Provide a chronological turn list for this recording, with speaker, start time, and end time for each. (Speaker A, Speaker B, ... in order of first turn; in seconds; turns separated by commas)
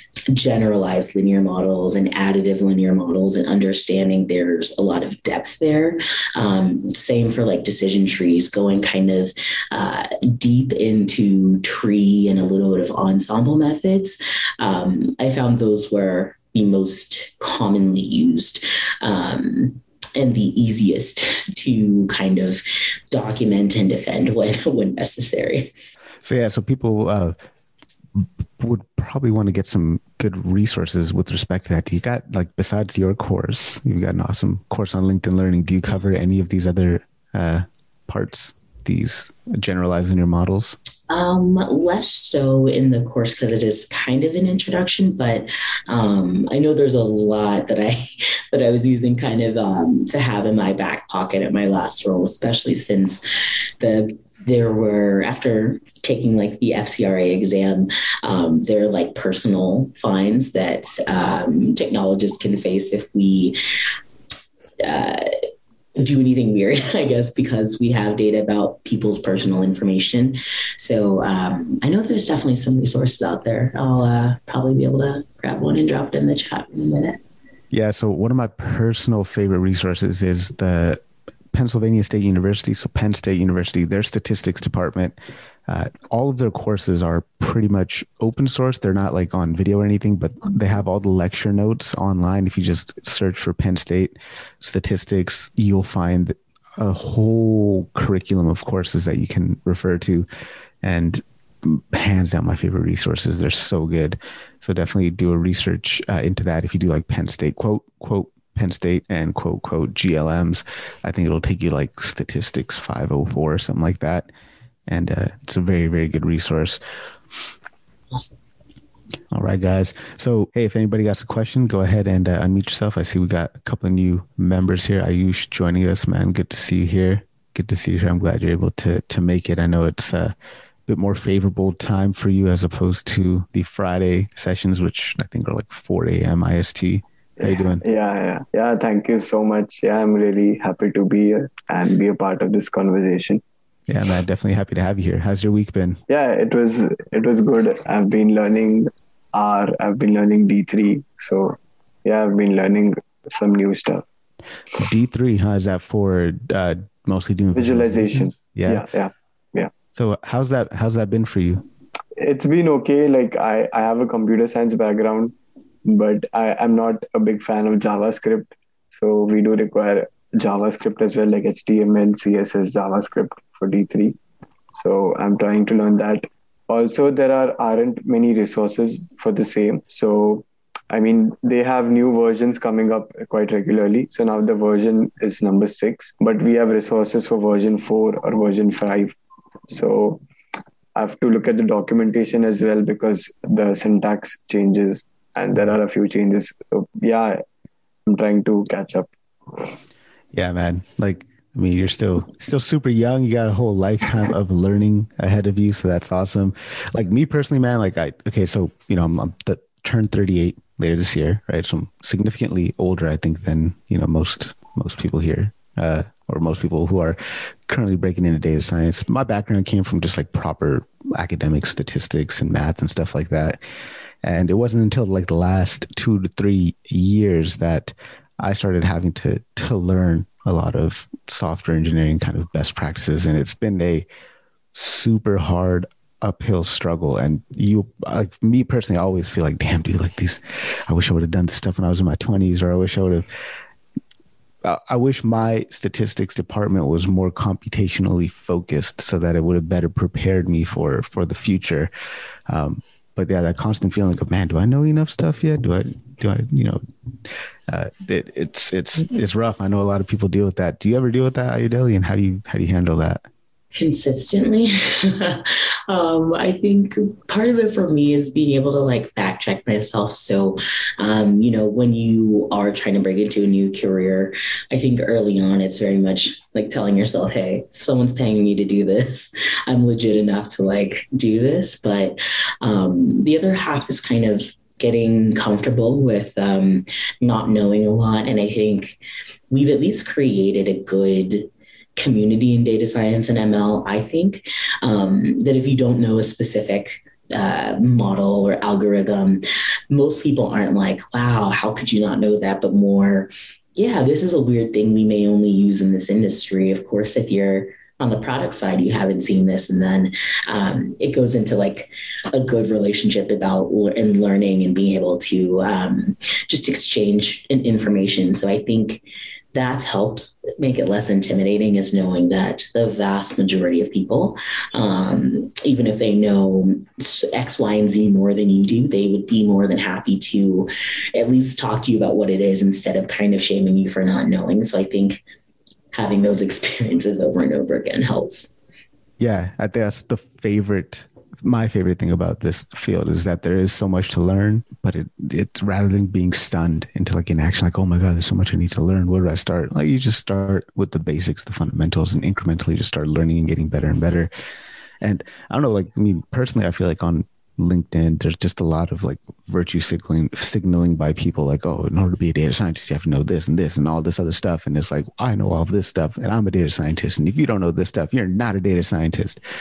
Speaker A: 0.3-25.7, Speaker B: 26.2-27.4, Speaker B: 28.1-40.8, Speaker A: 41.1-53.2, Speaker A: 53.8-63.6, Speaker A: 64.8-65.3, Speaker A: 66.0-77.2, Speaker B: 77.7-81.0, Speaker B: 81.5-85.2, Speaker B: 85.7-100.3, Speaker B: 100.8-114.3, Speaker B: 114.9-116.8, Speaker B: 119.3-130.3, Speaker B: 130.9-137.8, Speaker C: 137.4-143.4, Speaker B: 143.9-146.0, Speaker C: 146.1-154.0, Speaker B: 154.8-158.9, Speaker C: 157.6-159.7, Speaker B: 159.9-161.7, Speaker C: 162.2-174.2, Speaker C: 174.7-189.1, Speaker C: 189.7-190.2, Speaker C: 190.9-197.4, Speaker C: 198.1-199.7, Speaker B: 200.3-223.6, Speaker B: 224.2-234.1, Speaker B: 234.7-243.3, Speaker B: 244.6-251.9, Speaker B: 252.5-256.8, Speaker B: 257.7-263.2, Speaker A: 263.7-289.0, Speaker A: 289.5-335.2, Speaker A: 335.9-338.6, Speaker B: 339.2-354.3, Speaker B: 355.0-369.4